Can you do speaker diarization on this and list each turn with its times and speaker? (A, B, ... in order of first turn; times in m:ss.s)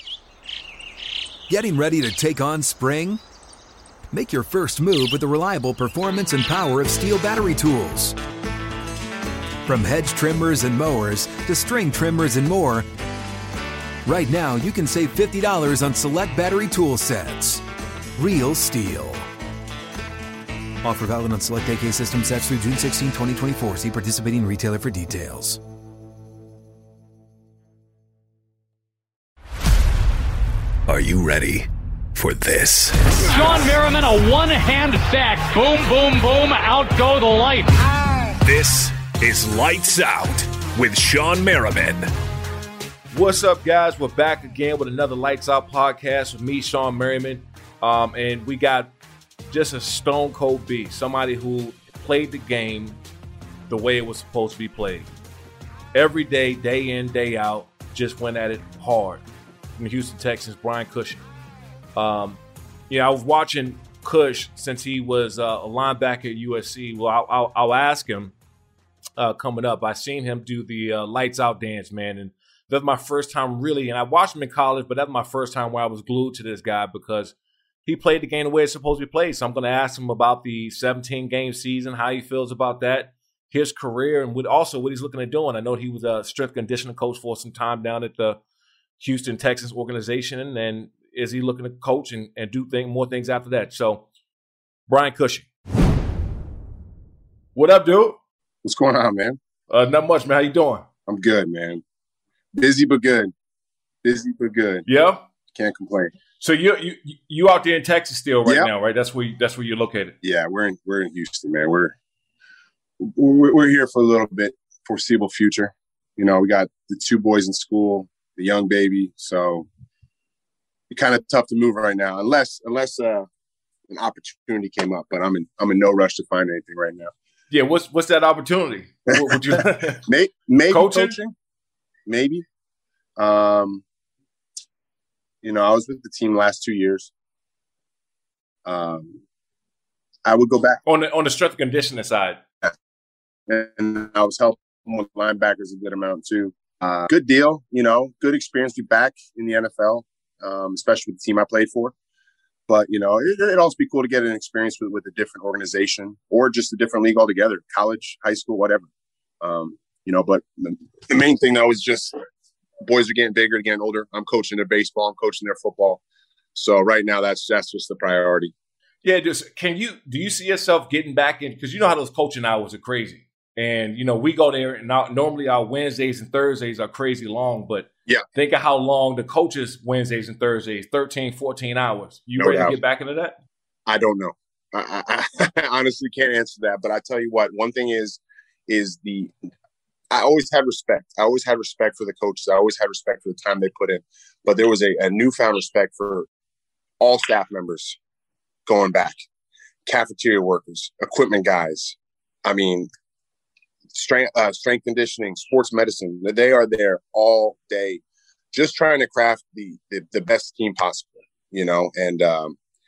0:01.5-0:03.2 A
0:04.1-0:08.2 A
0:09.7-0:12.9 A
0:14.0-0:17.6 A
0:18.2-0:19.3 A
0:20.8-0:25.6 A
0:30.9-0:31.4 B
0:32.2-0:32.9 B
0:33.1-0:37.7 C
0:38.4-0:42.1 B
0:43.1-0:48.9 D
0:49.5-0:53.0 D
0:53.7-0:55.1 D
0:55.9-0:59.2 D
0:59.8-1:01.2 D
1:02.0-1:08.3 D
1:09.2-1:17.3 D
1:17.9-1:28.4 D
1:29.0-1:34.0 D
1:34.9-1:35.5 D
1:37.6-1:38.2 D
1:38.6-1:39.4 E
1:39.7-1:40.8 D
1:41.1-1:41.8 E
1:42.5-1:43.3 E
1:44.0-1:44.9 E
1:44.9-1:45.2 D
1:45.5-1:46.1 E
1:46.4-1:50.1 D
1:50.2-1:52.0 E
1:53.0-1:59.7 E
2:00.9-2:03.3 E
2:03.9-2:07.1 E
2:07.5-2:10.1 D
2:09.2-2:11.3 E
2:10.7-2:11.2 D
2:12.1-2:12.4 E
2:13.2-2:13.8 E
2:15.4-2:17.1 E
2:18.6-2:19.2 E
2:20.2-2:20.8 E
2:20.9-2:22.4 D
2:23.5-2:31.9 E
2:32.7-2:38.9 E
2:39.4-2:42.2 E
2:42.8-2:46.0 E
2:46.6-2:48.5 E
2:49.0-3:03.4 D
3:02.4-3:02.8 E
3:03.9-3:09.3 E
3:10.1-3:16.3 E
3:17.0-3:18.0 E
3:18.7-3:19.2 E
3:19.9-3:22.9 E
3:23.9-3:28.0 E
3:28.5-3:32.6 E